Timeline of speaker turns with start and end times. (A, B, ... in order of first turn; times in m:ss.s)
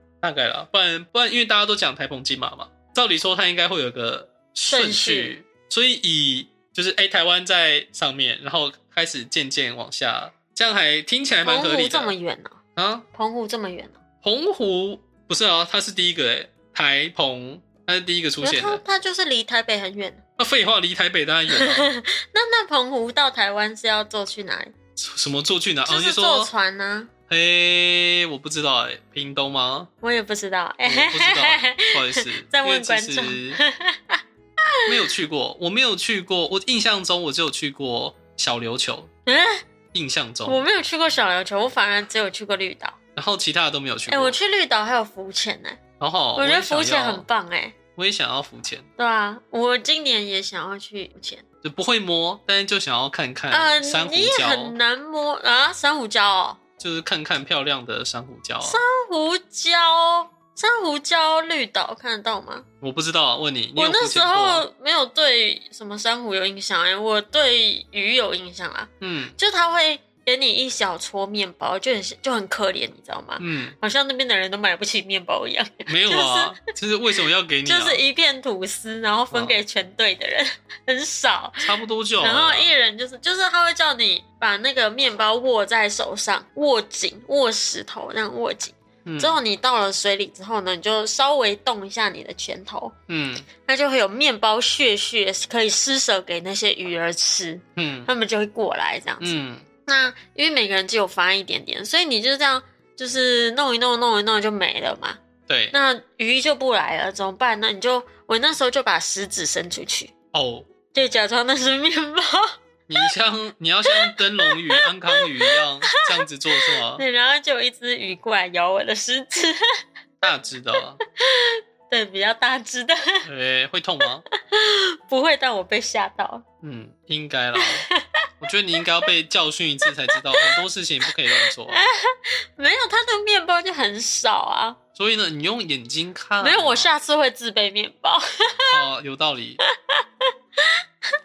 0:00.2-0:12.1 A
0:04.6-0:05.4 B
0:11.4-0:12.6 B
0:12.8-0:13.0 A
0:13.1-0:14.0 B
0:14.2-0:18.8 A
0:18.4-0:20.2 B
0:20.4-0:21.9 A
0:21.5-0:24.7 B
0:25.0-0:26.5 A
0:25.9-0:27.1 B
0:27.3-0:29.9 A
0:30.0-0:34.9 B
0:30.8-0:33.6 A
0:34.9-0:39.1 A
0:39.2-0:39.6 B
0:39.9-0:40.6 A
0:40.4-0:43.0 B
0:43.2-0:44.4 A
0:44.1-0:45.8 B
0:46.0-0:47.2 A
0:46.4-0:47.8 B
0:48.0-0:48.8 A
0:49.0-0:51.4 B
0:51.6-0:54.8 A
0:53.5-0:56.6 B
0:56.8-0:58.8 A
0:58.6-1:02.6 B
1:02.8-1:04.6 A
1:03.8-1:16.6 B
1:09.0-1:09.3 A
1:13.4-1:13.8 A
1:15.8-1:18.0 A
1:17.6-1:32.9 B
1:19.3-1:19.6 A
1:21.6-1:22.7 A
1:29.0-1:29.4 A
1:33.1-1:33.5 A
1:33.6-1:45.2 B
1:37.8-1:38.1 A
1:39.2-1:39.6 A
1:45.5-1:45.7 A
1:45.7-1:50.1 B
1:50.3-1:50.7 A
1:50.9-1:52.6 B
1:52.9-1:57.0 A
1:53.9-1:56.0 B
1:56.5-1:59.6 B
2:00.2-2:01.0 A
2:01.2-2:03.2 B
2:03.2-2:04.2 A
2:04.3-2:06.4 B
2:06.6-2:07.8 A
2:07.6-2:08.0 B
2:08.4-2:11.8 A
2:09.9-2:14.8 B
2:15.0-2:16.9 A
2:16.4-2:18.8 B
2:18.7-2:19.6 A
2:19.7-2:20.7 B